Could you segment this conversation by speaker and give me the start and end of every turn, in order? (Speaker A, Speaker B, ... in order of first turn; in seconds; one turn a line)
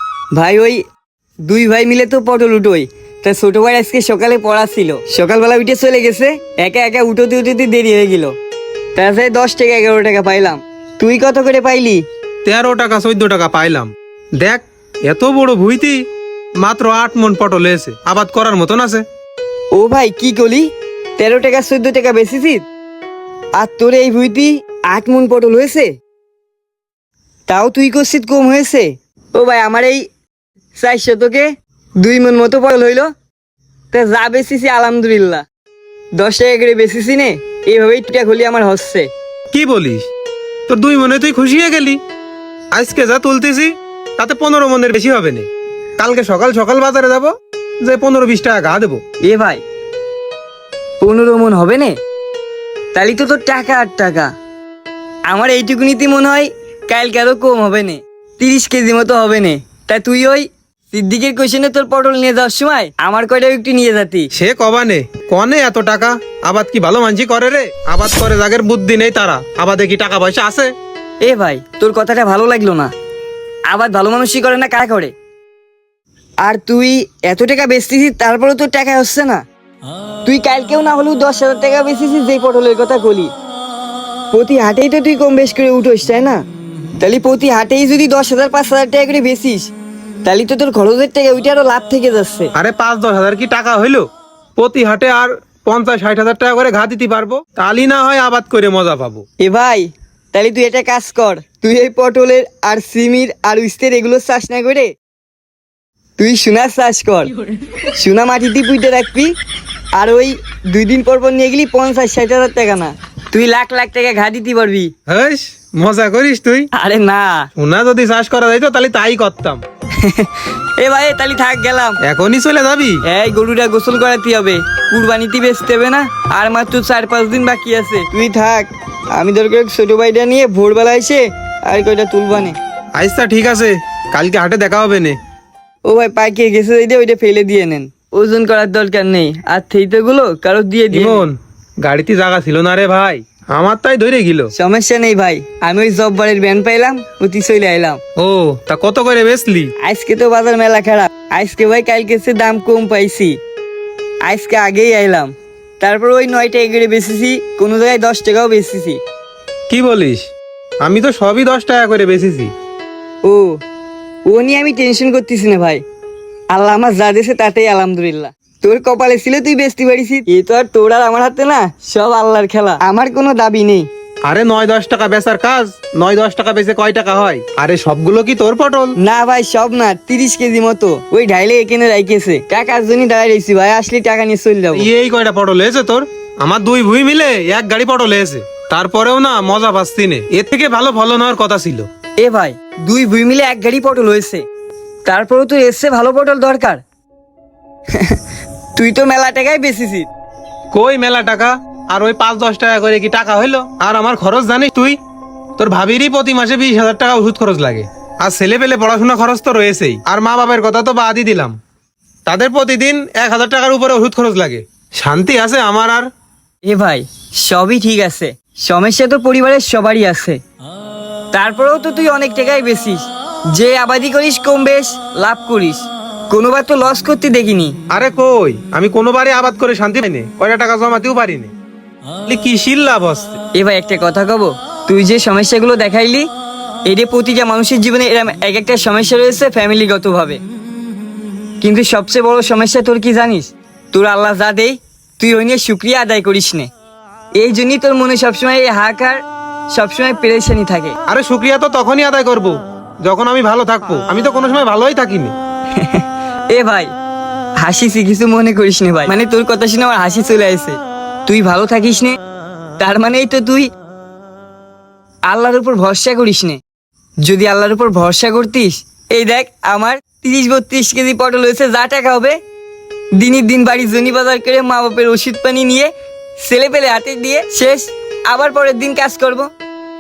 Speaker A: 0.3-0.8
Speaker A: 1.4-8.4
Speaker A: 8.9-12.1
Speaker B: 12.4-16.1
Speaker B: 16.6-19.1
Speaker A: 19.7-22.7
Speaker A: 23.5-25.9
Speaker A: 27.5-30.1
Speaker A: 30.8-33.1
Speaker A: 33.9-35.5
Speaker A: 36.1-39.1
Speaker B: 39.5-40.1
Speaker B: 40.7-42.0
Speaker B: 42.7-49.0
Speaker A: 49.2-49.6
Speaker A: 51.0-52.0
Speaker A: 52.9-54.3
Speaker A: 55.3-64.3
Speaker B: 64.3-70.7
Speaker A: 71.2-72.9
Speaker A: 73.7-75.1
Speaker A: 76.4-79.5
Speaker A: 80.2-83.3
Speaker A: 84.3-86.4
Speaker A: 87.0-89.7
Speaker A: 90.2-92.5
Speaker B: 92.5-99.2
Speaker A: 99.4-105.0
Speaker A: 106.2-109.4
Speaker A: 109.9-114.9
Speaker B: 115.1-116.7
Speaker A: 116.7-117.5
Speaker B: 117.6-119.6
Speaker A: 120.0-122.0
Speaker B: 122.0-123.0
Speaker A: 123.0-132.6
Speaker B: 132.9-135.2
Speaker A: 135.8-141.2
Speaker B: 140.9-144.5
Speaker A: 144.5-148.0
Speaker B: 148.2-149.7
Speaker A: 149.8-153.4
Speaker A: 154.2-159.0
Speaker B: 159.7-160.3
Speaker B: 160.8-162.5
Speaker A: 163.2-163.6
Speaker A: 164.3-165.8
Speaker A: 166.5-173.9
Speaker B: 174.2-179.0
Speaker A: 179.0-184.9
Speaker B: 184.7-191.9
Speaker A: 192.2-194.4
Speaker A: 195.1-196.8
Speaker A: 197.9-198.2
Speaker A: 198.8-200.1
Speaker B: 200.7-205.0
Speaker B: 205.6-211.6
Speaker B: 212.3-216.1
Speaker A: 216.6-220.4
Speaker A: 221.3-227.8
Speaker B: 227.9-231.5
Speaker B: 232.3-233.4
Speaker A: 233.5-236.3
Speaker A: 236.8-240.4
Speaker A: 241.6-246.7
Speaker A: 247.4-251.0
Speaker B: 251.1-255.3
Speaker A: 255.7-256.9
Speaker A: 257.6-262.2
Speaker A: 262.8-263.7
Speaker A: 265.3-266.6
Speaker A: 267.2-272.4
Speaker A: 273.1-279.5